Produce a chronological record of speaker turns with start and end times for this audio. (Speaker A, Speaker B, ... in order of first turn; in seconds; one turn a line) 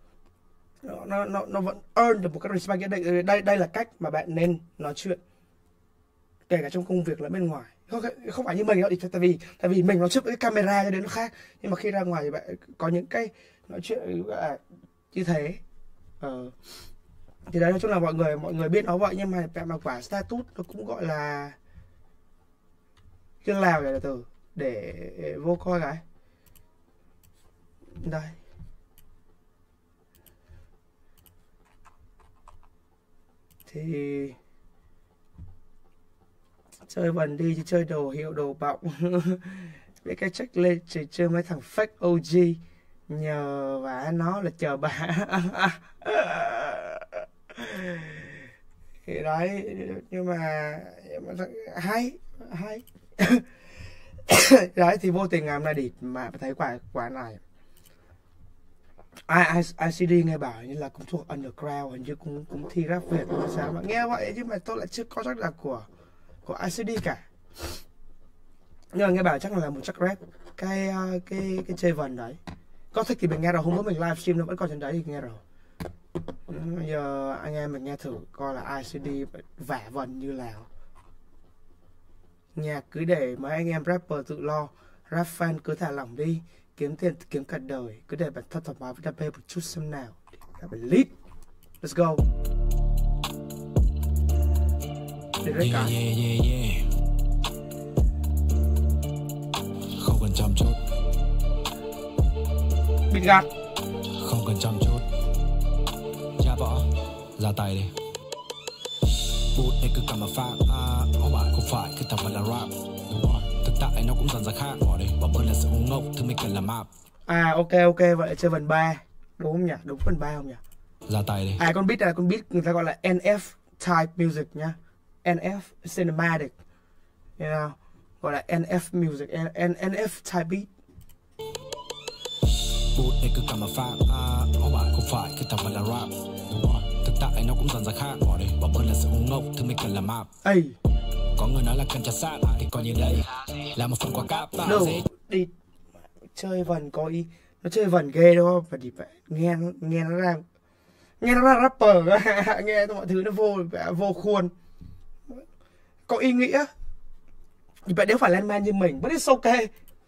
Speaker A: 0.8-5.2
Speaker A: 6.5-14.6
Speaker A: 15.1-15.6
Speaker A: 16.2-16.5
Speaker A: 17.5-21.6
Speaker A: 23.4-26.0
Speaker A: 28.0-28.4
Speaker A: 33.7-34.4
Speaker A: 36.9-48.4
Speaker A: 49.1-53.5
Speaker A: 54.3-57.4
Speaker A: 59.3-65.9
Speaker A: 66.5-67.2
Speaker A: 68.9-72.4
Speaker A: 72.9-75.4
Speaker A: 76.5-80.7
Speaker A: 82.5-91.1
Speaker A: 91.8-92.2
Speaker A: 95.4-96.0
Speaker B: 95.6-96.8
Speaker B: 100.0-100.8
Speaker A: 103.1-103.5
Speaker B: 104.2-105.0
Speaker B: 106.4-107.9
Speaker B: 109.5-116.9
Speaker A: 117.3-120.6
Speaker B: 121.1-121.6
Speaker A: 121.6-126.6
Speaker A: 127.4-130.7
Speaker B: 132.9-140.3
Speaker A: 140.4-140.8
Speaker B: 141.4-145.1
Speaker A: 144.6-145.5
Speaker A: 146.3-150.4
Speaker A: 151.2-154.5
Speaker A: 156.1-156.7
Speaker A: 157.9-159.7